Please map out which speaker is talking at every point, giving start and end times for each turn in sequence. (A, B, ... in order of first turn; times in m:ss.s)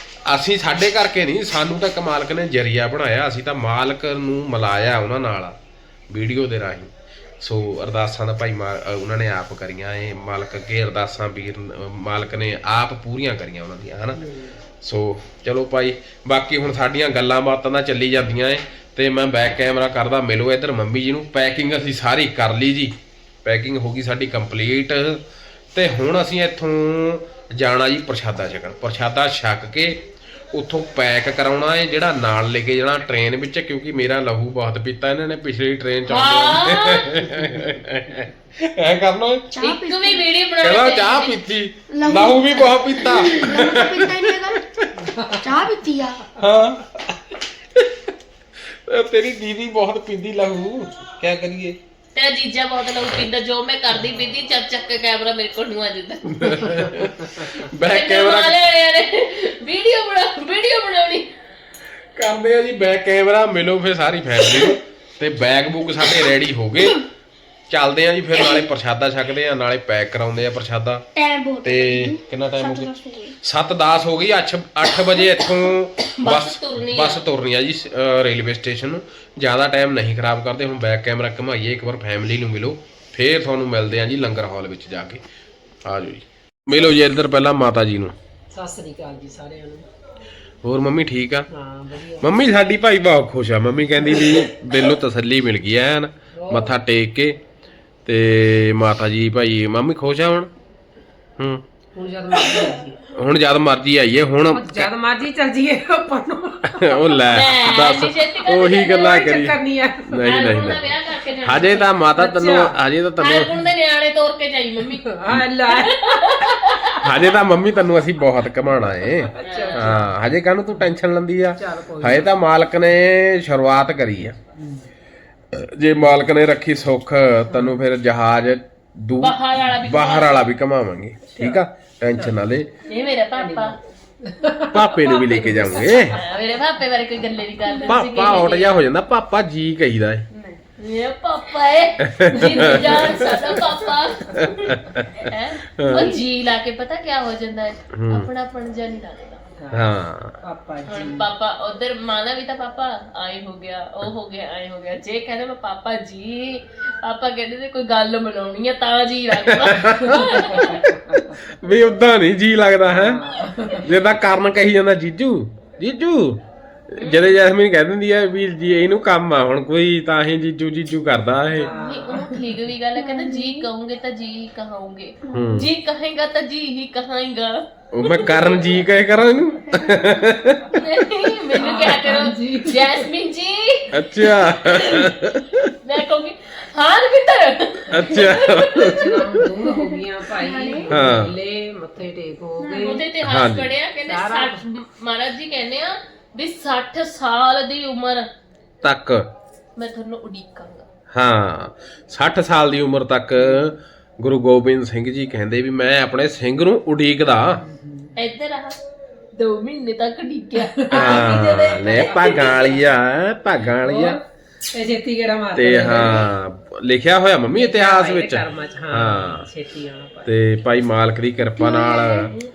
0:00.3-0:05.6 A
0:06.1-0:14.2 A
0:14.2-0:14.5 B
0:14.8-0:22.9 A
0:23.4-0:25.2 A
0:25.7-0:30.0 A
0:30.5-0:39.5 A
0:36.1-0:37.2 C
0:39.5-0:40.3 D
0:39.6-0:41.4 C
0:40.6-0:44.9 A
0:41.9-0:44.6 D
0:45.0-0:45.4 B
0:45.4-0:46.3 D
0:46.4-0:47.9 A
0:48.9-0:51.8 A
0:52.1-0:56.4 C
0:56.3-0:58.5 A
0:57.8-1:01.3 C
1:02.2-1:07.0 A
1:07.7-1:11.1 A
1:11.2-1:13.4 D
1:11.6-1:12.9 A
1:13.4-1:25.2 A
1:16.2-1:17.3 C
1:25.8-1:28.1 A
1:28.5-1:29.9 B
1:30.6-1:31.5 A
1:31.5-1:32.3 B
1:32.2-1:37.4 A
1:36.4-1:36.8 B
1:38.1-1:40.5 A
1:41.4-1:41.6 A
1:42.0-1:43.0 B
1:43.1-1:44.9 A
1:44.5-1:47.0 B
1:46.7-1:50.8 A
1:47.2-1:49.2 C
1:48.9-1:50.8 B
1:50.2-1:51.9 C
1:51.4-1:53.5 A
1:51.5-1:52.8 B
1:53.2-1:57.4 C
1:54.9-1:56.9 B
1:57.0-2:04.4 A
1:58.9-2:00.2 B
1:59.4-2:00.0 C
2:01.6-2:02.3 B
2:04.6-2:04.9 B
2:05.5-2:12.7 A
2:07.5-2:07.8 B
2:09.2-2:10.5 C
2:11.3-2:12.4 B
2:12.8-2:13.8 C
2:13.4-2:16.2 B
2:14.7-2:16.2 A
2:15.8-2:18.9 C
2:17.8-2:20.2 A
2:20.7-2:29.4 C
2:22.0-2:23.3 A
2:22.3-2:23.7 B
2:24.3-2:26.2 A
2:27.9-2:28.3 A
2:29.6-2:31.3 B
2:29.7-2:30.4 A
2:30.9-2:40.8 C
2:39.4-2:43.2 A
2:40.1-2:41.4 B
2:42.9-2:43.9 B
2:43.8-2:46.4 A
2:46.9-2:51.7 A
2:47.0-2:47.5 C
2:51.6-2:52.5 B
2:51.6-2:58.7 C
2:53.0-2:53.6 D
2:55.3-2:55.7 A
2:57.9-3:00.8 A
3:00.7-3:04.1 C
3:01.5-3:03.0 B
3:03.9-3:05.7 A
3:04.6-3:05.1 C
3:05.8-3:08.9 C
3:07.9-3:09.3 A
3:08.0-3:13.1 B
3:09.7-3:11.0 D
3:10.9-3:11.4 A
3:12.6-3:13.0 D
3:12.8-3:18.2 C
3:13.2-3:13.7 A
3:14.0-3:14.6 B
3:18.8-3:19.3 A
3:19.8-3:20.9 C
3:21.1-3:27.6 A
3:23.4-3:23.7 B
3:27.6-3:28.1 B
3:28.2-3:28.8 C
3:29.4-3:32.7 C
3:30.6-3:32.9 B
3:30.9-3:34.2 A
3:33.8-3:36.3 B
3:35.6-3:39.5 A
3:37.5-3:40.5 B
3:40.2-3:42.3 A
3:41.6-3:42.3 D